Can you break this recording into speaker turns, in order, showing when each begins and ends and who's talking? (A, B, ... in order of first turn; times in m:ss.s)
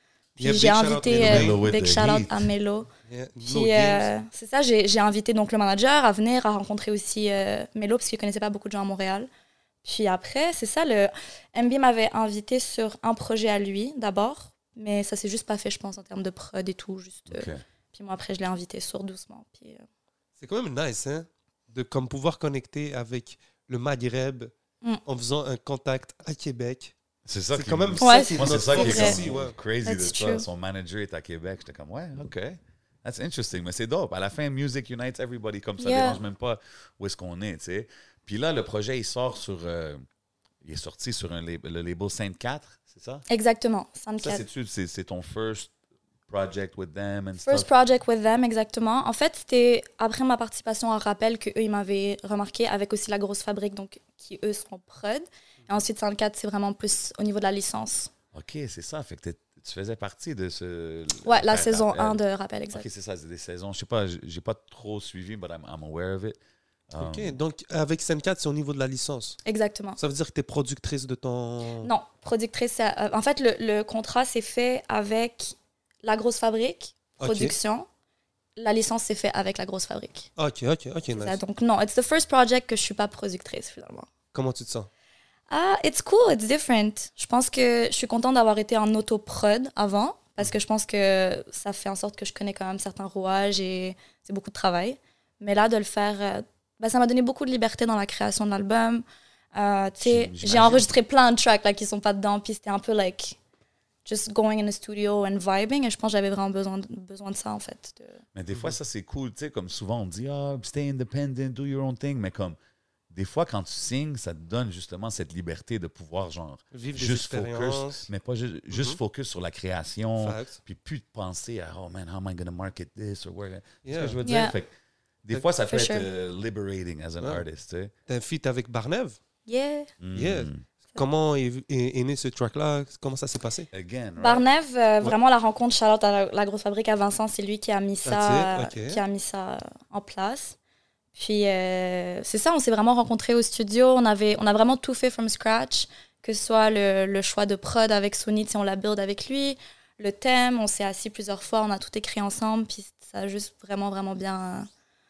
0:00.4-0:01.6 A
0:00.4-0:02.9 B
0:01.1-0:02.5 C
0:03.1-0:04.1 A
0:03.4-0:09.3 B
0:09.8-0:19.8 B
0:17.3-0:17.6 C
0:20.4-0:24.5 A
0:25.1-0:26.9 A
0:27.3-0:40.0 C
0:27.5-0:29.6 A
0:28.0-0:29.2 B
0:29.8-0:30.5 B
0:35.8-0:36.2 B
0:40.6-0:43.2 C
0:43.3-0:44.4 B
0:44.2-0:45.7 C
0:46.3-0:47.7 C
0:47.4-0:58.1 B
0:58.3-1:02.2 C
1:01.2-1:02.8 B
1:02.7-1:07.4 C
1:07.0-1:09.4 A
1:09.5-1:10.0 B
1:10.0-1:11.9 A
1:11.8-1:17.9 B
1:17.2-1:17.5 A
1:18.6-1:20.3 B
1:20.4-1:21.4 A
1:21.1-1:24.1 B
1:24.3-1:24.9 A
1:25.5-1:43.4 B
1:40.0-1:40.9 C
1:44.0-1:48.2 B
1:48.4-1:52.6 C
1:53.1-2:04.7 C
1:56.7-1:58.1 A
1:58.7-1:59.0 A
2:00.2-2:00.6 A
2:03.8-2:04.2 A
2:04.2-2:04.5 B
2:05.2-2:07.9 C
2:05.7-2:06.1 B
2:08.1-2:09.2 A
2:09.5-2:09.9 B
2:10.0-2:10.6 C
2:10.1-2:13.7 A
2:13.7-2:14.4 C
2:14.2-2:20.6 B
2:18.0-2:19.0 A
2:21.2-2:34.7 B